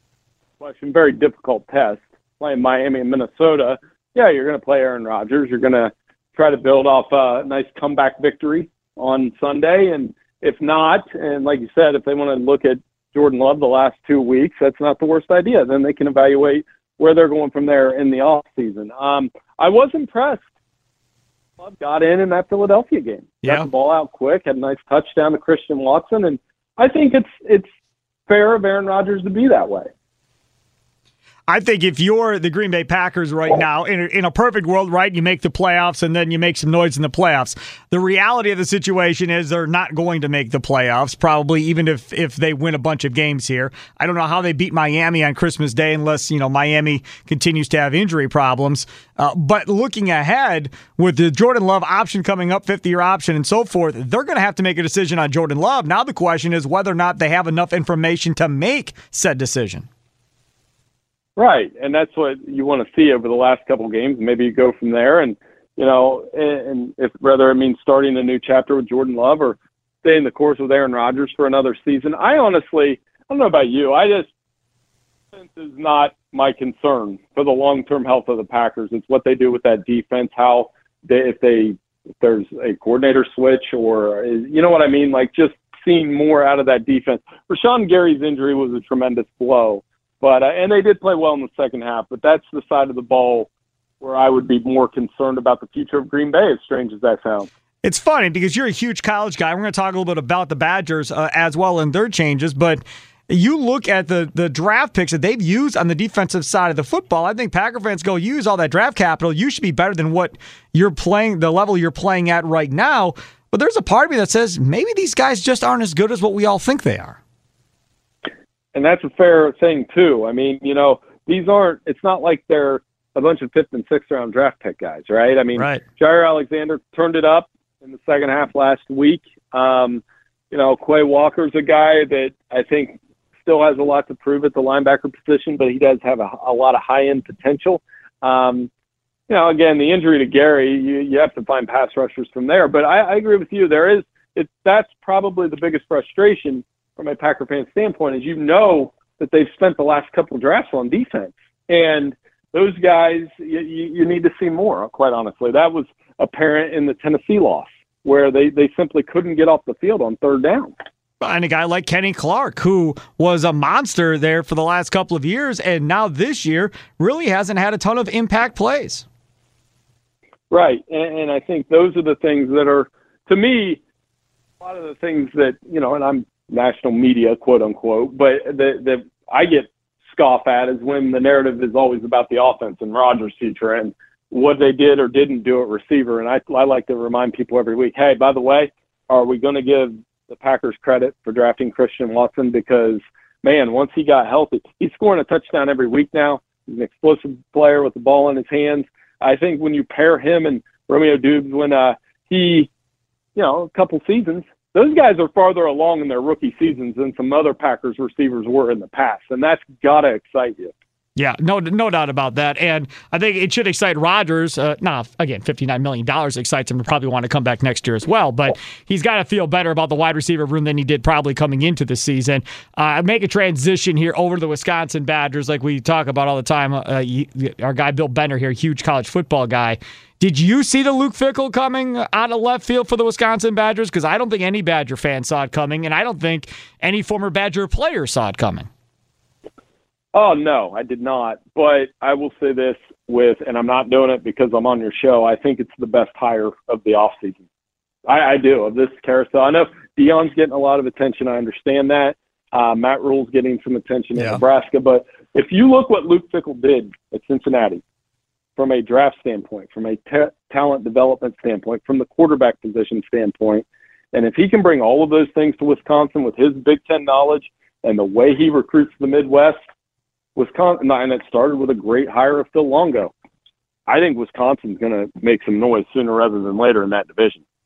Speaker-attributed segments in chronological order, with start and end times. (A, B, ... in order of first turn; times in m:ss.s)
0:00.6-0:20.4 A
0:21.6-0:27.7 A
0:28.3-0:29.9 A
0:31.5-0:59.8 B
1:01.4-1:14.3 A
1:15.3-1:37.5 A
1:37.8-1:57.2 B
1:58.7-2:18.7 A
2:05.6-2:05.8 B
2:19.3-2:40.7 A
2:41.2-2:49.0 B
2:50.5-2:53.8 A
2:54.6-3:22.7 A
3:23.3-3:30.7 A
3:31.2-3:58.7 B
4:00.1-4:07.4 A
4:08.0-4:17.8 A
4:18.6-4:29.6 A
4:30.3-4:33.1 A
4:33.9-4:37.4 A